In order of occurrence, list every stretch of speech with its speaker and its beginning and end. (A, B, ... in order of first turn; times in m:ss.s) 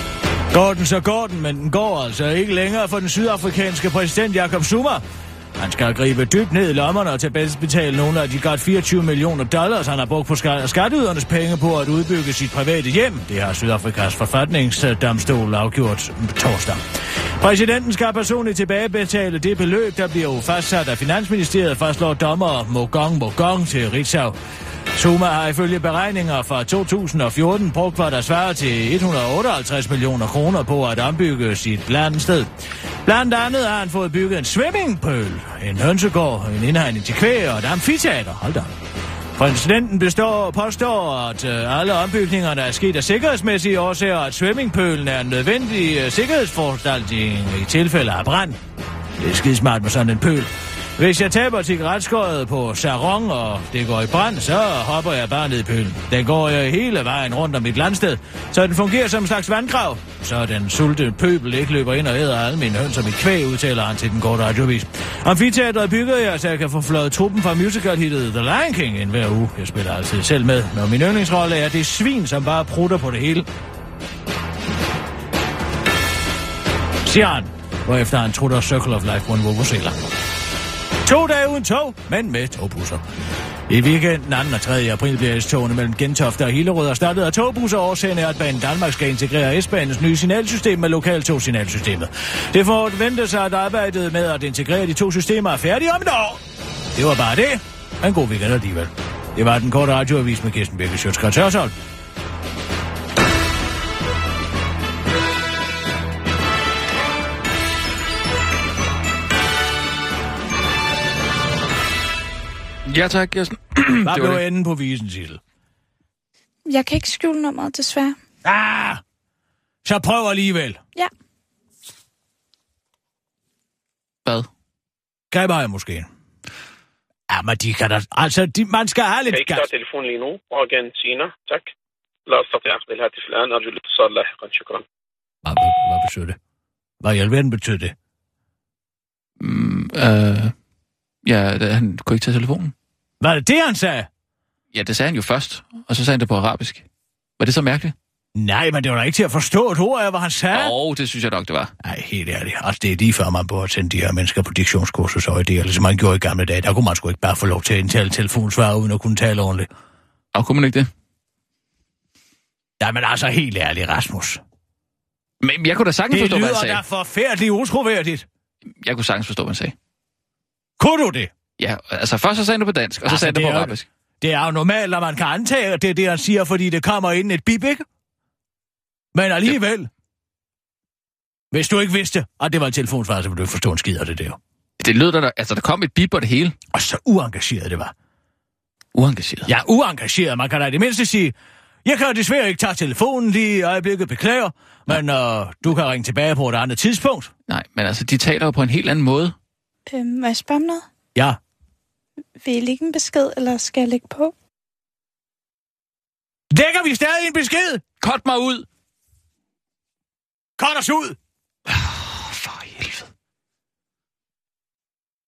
0:00.5-0:05.0 A
0:05.6-0:16.8 A
0:17.4-0:24.4 A
0:24.9-0:32.5 A
0:33.0-0:38.8 A
0:39.4-0:48.6 A
0:49.2-1:13.5 A
1:17.0-1:20.0 A
1:21.0-1:23.0 A
1:23.7-1:36.4 A
1:36.9-1:41.7 A
1:52.8-1:54.4 B
1:54.0-1:55.4 A
1:56.7-1:58.2 C
1:58.4-1:59.0 A
1:59.8-2:00.8 A
2:05.3-2:06.1 A
2:07.3-2:09.7 A
2:09.6-2:11.7 D
2:12.3-2:14.8 D
2:15.4-2:16.4 A
2:17.0-2:17.9 A
2:19.4-2:20.5 B
2:21.2-2:22.7 B
2:23.2-2:24.1 A
2:24.7-2:26.8 B
2:27.4-2:27.9 B
2:28.3-2:30.7 A
2:30.5-2:31.7 B
2:31.8-2:39.7 A
2:40.3-2:40.9 B
2:42.8-2:44.4 A
2:45.4-2:46.8 B
2:46.1-2:48.2 A
2:48.7-2:49.7 B
2:50.8-2:51.3 A
2:51.6-2:53.8 B
2:53.0-2:57.8 A
2:59.1-2:59.9 A
3:01.5-3:04.4 A
3:04.8-3:06.6 B
3:06.7-3:07.9 A
3:08.9-3:09.5 B
3:09.5-3:11.3 A
3:11.8-3:17.3 A
3:17.5-3:19.3 B
3:19.9-3:20.8 C
3:22.4-3:24.3 C
3:26.5-3:27.8 A
3:28.0-3:28.6 B
3:30.6-3:31.2 A
3:31.7-3:33.0 B